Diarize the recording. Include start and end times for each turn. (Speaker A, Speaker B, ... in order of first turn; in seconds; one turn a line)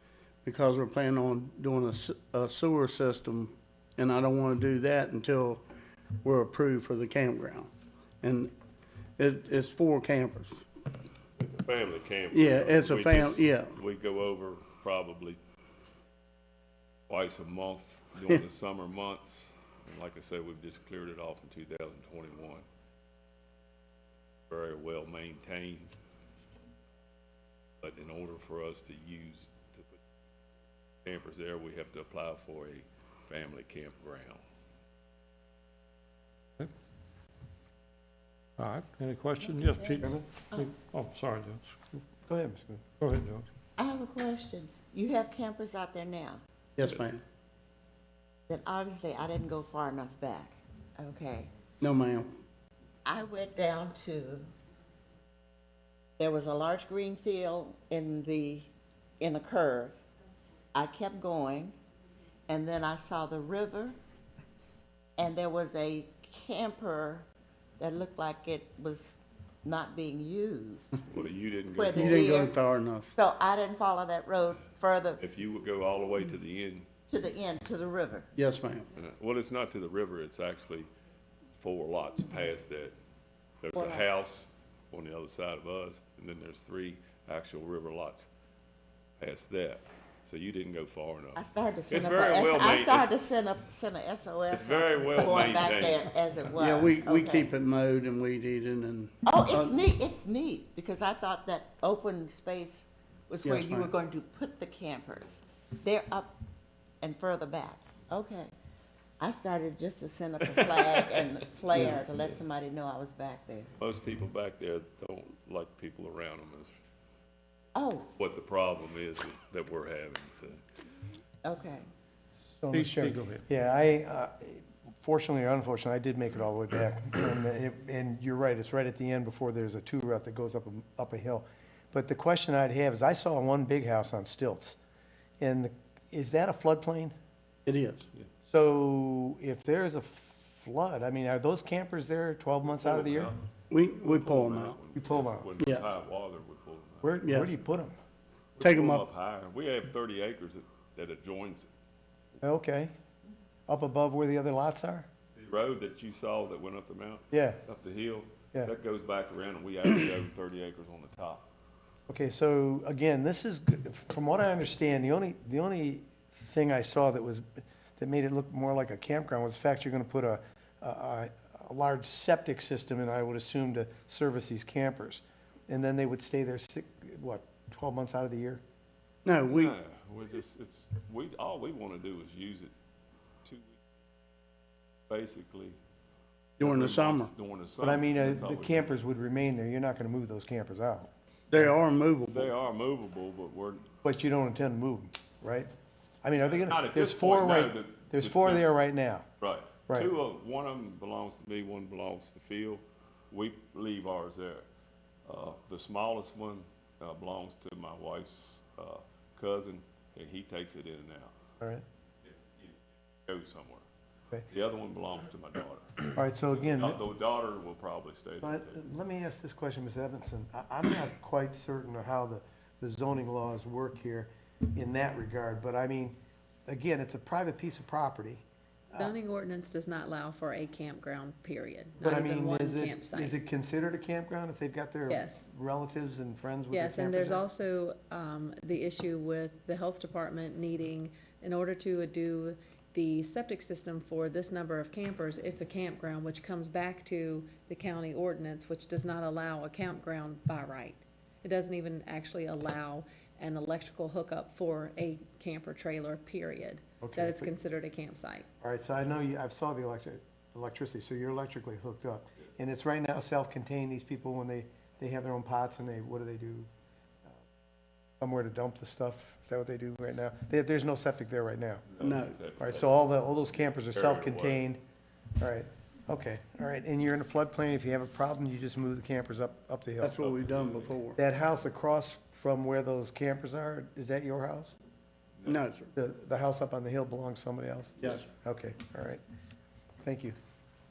Speaker A: 0.5-5.6
Speaker A: 6.2-7.7
Speaker A: 8.2-8.5
Speaker A: 9.2-10.7
Speaker B: 11.4-15.4
Speaker A: 12.3-13.8
Speaker B: 17.1-22.6
Speaker B: 24.5-25.9
Speaker B: 27.8-30.0
Speaker B: 31.0-34.4
Speaker C: 38.6-41.8
Speaker D: 39.4-40.7
Speaker E: 41.9-42.8
Speaker C: 43.0-43.5
Speaker D: 43.8-46.4
Speaker A: 46.8-47.2
Speaker D: 48.5-51.5
Speaker A: 51.8-52.3
Speaker D: 53.0-54.5
Speaker D: 56.2-58.7
Speaker D: 59.2-60.0
Speaker D: 60.7-61.8
Speaker D: 62.5-64.0
Speaker D: 65.2-67.3
Speaker D: 67.8-71.0
Speaker B: 71.1-72.5
Speaker D: 71.8-72.5
Speaker A: 71.9-73.1
Speaker D: 73.1-75.2
Speaker B: 75.2-76.9
Speaker D: 77.1-78.3
Speaker A: 78.4-78.9
Speaker B: 79.0-80.9
Speaker B: 81.6-83.0
Speaker B: 83.6-88.3
Speaker D: 83.7-84.0
Speaker B: 89.2-93.2
Speaker D: 91.4-97.5
Speaker B: 94.5-96.8
Speaker A: 96.6-99.8
Speaker D: 99.2-106.3
Speaker A: 103.4-103.9
Speaker D: 107.0-108.5
Speaker D: 109.2-113.7
Speaker B: 113.8-116.7
Speaker D: 117.8-118.1
Speaker B: 118.2-120.6
Speaker D: 121.4-121.9
Speaker E: 122.6-134.8
Speaker C: 122.7-123.4
Speaker E: 135.4-137.1
Speaker A: 137.7-138.1
Speaker E: 138.5-143.3
Speaker B: 142.7-147.4
Speaker A: 143.7-144.8
Speaker E: 144.9-145.5
Speaker A: 145.6-145.9
Speaker E: 147.0-147.9
Speaker A: 147.2-147.5
Speaker B: 148.6-151.7
Speaker A: 148.6-149.1
Speaker E: 152.4-152.9
Speaker E: 153.7-155.1
Speaker B: 155.4-161.5
Speaker E: 157.3-157.6
Speaker E: 162.1-178.6
Speaker A: 179.2-179.8
Speaker B: 179.5-182.7
Speaker B: 183.4-183.8
Speaker B: 185.1-185.8
Speaker B: 186.6-189.0
Speaker A: 186.6-187.3
Speaker E: 187.8-191.1
Speaker A: 191.5-192.5
Speaker B: 192.3-193.9
Speaker E: 194.0-195.7
Speaker E: 196.2-199.3
Speaker B: 196.4-198.7
Speaker B: 199.4-204.7
Speaker B: 205.3-211.3
Speaker B: 212.2-213.8
Speaker B: 214.5-218.8
Speaker E: 216.2-217.0
Speaker E: 218.4-229.1
Speaker F: 228.9-233.4
Speaker E: 232.0-237.4
Speaker F: 235.1-235.5
Speaker F: 236.7-258.5
Speaker E: 257.0-257.5
Speaker E: 258.6-266.7
Speaker E: 268.2-271.9
Speaker B: 271.9-272.9
Speaker A: 272.0-272.4
Speaker E: 272.6-274.8
Speaker B: 273.9-274.6
Speaker E: 275.4-280.2
Speaker A: 280.0-281.2
Speaker B: 280.0-281.0
Speaker E: 281.2-284.8
Speaker B: 285.4-285.6
Speaker A: 285.5-285.9
Speaker E: 286.0-289.2
Speaker A: 288.0-288.2
Speaker E: 290.0-290.4